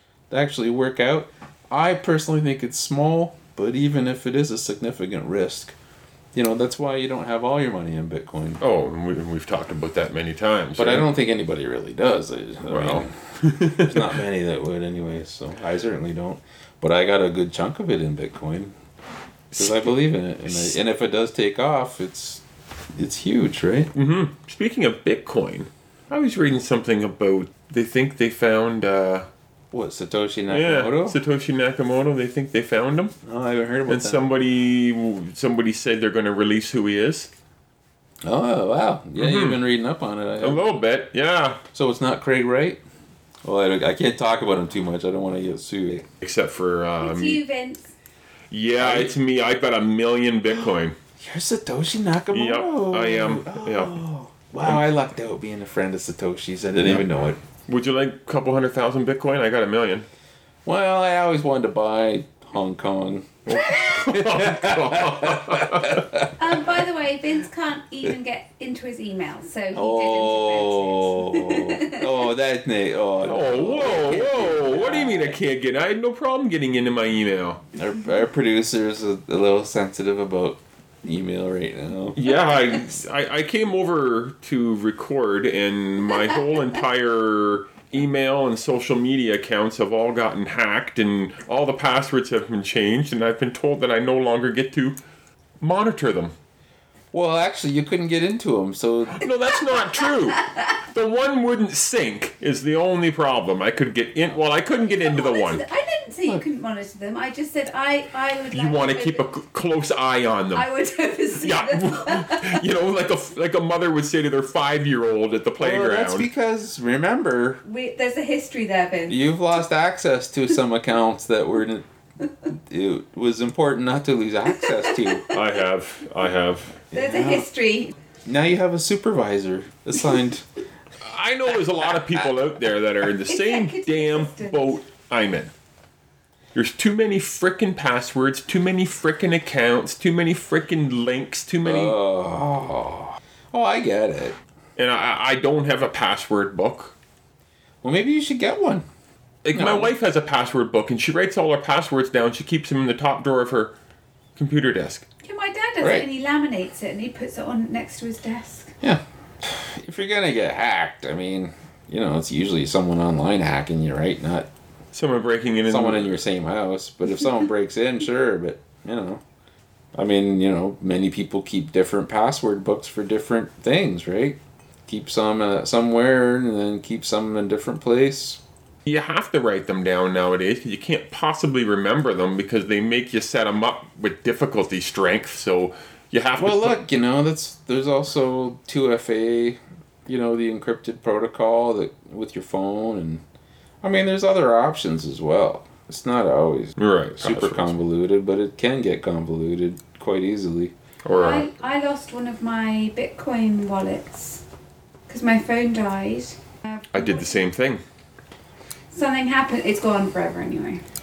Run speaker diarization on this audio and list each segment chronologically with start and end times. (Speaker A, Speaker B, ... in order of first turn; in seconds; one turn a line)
Speaker A: 0.3-5.7
Speaker A: 6.3-8.6
Speaker B: 8.6-11.1
Speaker A: 10.8-18.7
Speaker B: 12.7-14.2
Speaker B: 19.5-20.8
Speaker A: 19.6-22.4
Speaker A: 22.9-23.9
Speaker B: 23.9-29.3
Speaker A: 29.7-31.2
Speaker B: 30.5-33.1
Speaker A: 33.2-34.3
Speaker B: 33.9-37.3
Speaker A: 38.2-40.7
Speaker B: 39.1-39.6
Speaker B: 40.4-41.6
Speaker A: 41.7-42.8
Speaker A: 43.4-46.1
Speaker B: 46.2-47.4
Speaker C: 47.0-47.9
Speaker B: 48.5-51.0
Speaker A: 48.8-49.1
Speaker A: 51.2-57.4
Speaker B: 52.3-54.0
Speaker B: 56.8-57.0
Speaker B: 57.7-60.1
Speaker A: 60.6-66.4
Speaker B: 63.5-66.0
Speaker C: 66.4-72.0
Speaker A: 69.7-75.4
Speaker B: 73.2-77.6
Speaker A: 77.7-82.3
Speaker B: 82.1-95.0
Speaker B: 95.6-96.3
Speaker A: 97.1-99.3
Speaker B: 99.2-105.6
Speaker C: 104.9-109.2
Speaker B: 108.5-110.7
Speaker C: 110.5-112.6
Speaker B: 111.4-116.3
Speaker A: 115.6-117.6
Speaker C: 117.6-119.2
Speaker A: 119.1-121.8
Speaker A: 122.4-125.3
Speaker C: 124.9-125.3
Speaker B: 125.3-126.8
Speaker A: 126.9-127.5
Speaker C: 126.9-128.0
Speaker A: 128.2-130.4
Speaker B: 131.0-135.5
Speaker C: 133.3-134.7
Speaker B: 136.5-141.9
Speaker A: 141.6-144.4
Speaker B: 144.8-146.9
Speaker A: 147.8-148.8
Speaker B: 149.4-153.7
Speaker A: 149.5-149.9
Speaker B: 154.3-155.1
Speaker C: 155.2-158.7
Speaker A: 155.8-156.1
Speaker A: 158.8-164.5
Speaker B: 164.9-166.1
Speaker A: 165.7-169.2
Speaker A: 169.9-178.4
Speaker B: 178.8-186.8
Speaker A: 186.4-193.2
Speaker A: 193.8-200.7
Speaker B: 196.8-197.7
Speaker B: 201.0-201.5
Speaker C: 201.1-204.4
Speaker C: 205.1-207.4
Speaker B: 206.9-207.8
Speaker C: 208.9-210.8